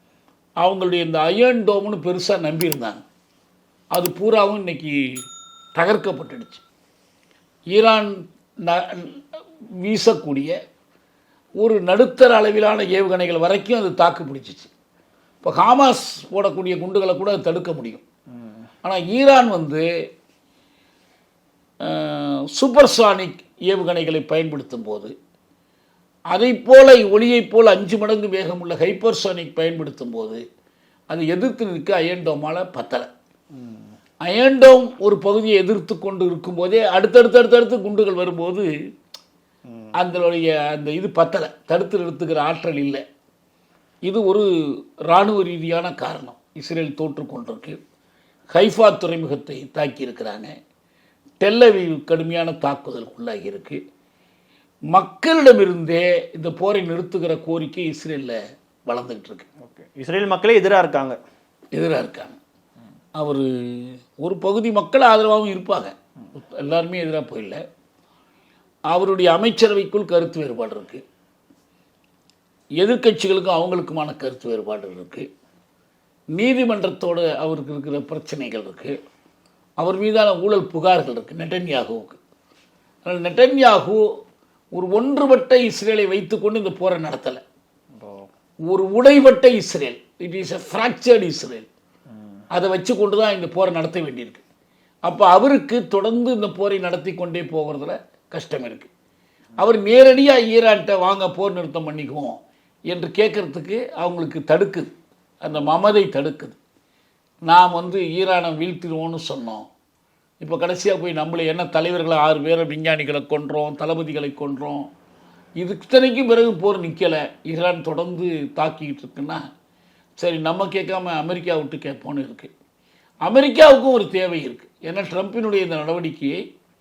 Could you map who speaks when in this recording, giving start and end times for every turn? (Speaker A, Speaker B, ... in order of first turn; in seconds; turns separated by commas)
Speaker A: 0.6-3.0, Speaker A: 3.9-4.9, Speaker A: 5.7-6.6, Speaker A: 7.7-9.2, Speaker A: 9.8-10.5, Speaker A: 11.6-14.7, Speaker A: 15.4-18.0, Speaker A: 18.8-19.8, Speaker A: 21.8-25.1, Speaker A: 26.3-30.4, Speaker A: 31.1-33.1, Speaker B: 33.5-33.9, Speaker A: 34.2-38.7, Speaker A: 39.9-43.0, Speaker A: 44.0-44.4, Speaker A: 45.1-47.8, Speaker A: 48.5-50.5, Speaker A: 51.4-53.8, Speaker A: 54.9-59.5, Speaker B: 59.6-61.2, Speaker A: 61.7-62.4, Speaker A: 63.1-67.6, Speaker A: 68.9-71.0, Speaker A: 72.8-75.2, Speaker A: 76.3-78.9, Speaker A: 79.8-82.2, Speaker A: 83.0-84.0, Speaker A: 84.7-87.4, Speaker B: 88.0-88.3, Speaker A: 88.7-91.7, Speaker A: 92.5-94.4, Speaker A: 95.0-98.9, Speaker A: 99.6-104.9, Speaker A: 105.4-106.6, Speaker A: 107.5-109.6, Speaker A: 110.4-114.9, Speaker A: 115.6-119.4, Speaker A: 120.2-122.5, Speaker A: 123.2-126.4